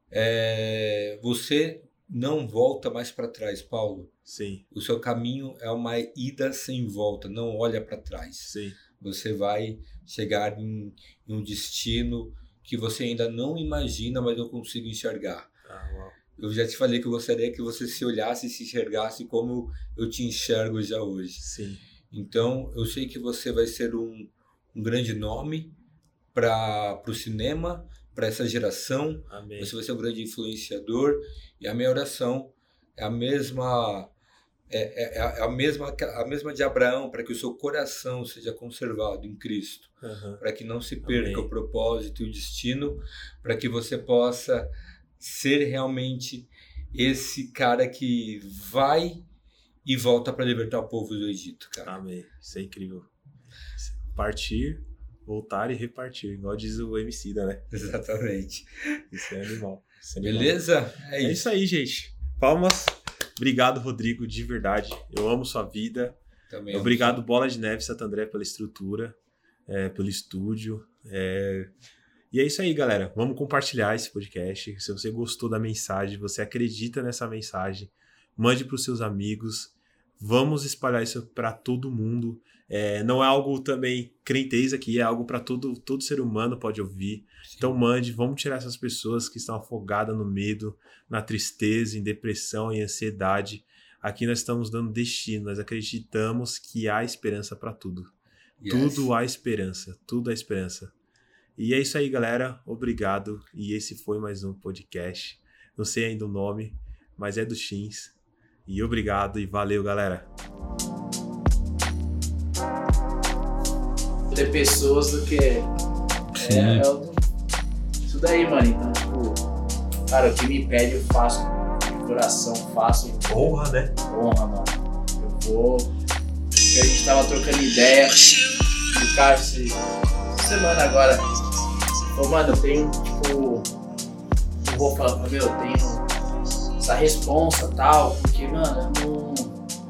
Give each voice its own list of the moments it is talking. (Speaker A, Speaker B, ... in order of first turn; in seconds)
Speaker A: 0.1-4.1, 4.7-15.5, 16.4-21.4, 22.1-25.7, 26.3-34.1, 34.7-49.2, 49.8-52.0, 57.7-59.0, 60.2-61.4, 66.5-67.2, 98.6-99.1, 116.3-116.8
Speaker B: 4.3-4.6, 8.4-8.8, 15.7-16.2, 21.4-21.8, 29.3-29.7, 40.0-40.4, 41.0-41.5, 51.8-53.1, 53.8-57.7, 59.1-60.6, 61.2-66.2, 66.7-69.2, 69.7-71.7, 72.3-98.1, 98.7-100.9, 101.6-110.3, 123.3-123.9
Speaker C: 114.3-115.7, 116.4-117.2, 118.0-119.4, 120.1-125.9, 126.7-129.8, 130.4-131.3, 132.1-133.7, 134.6-136.0, 136.8-139.5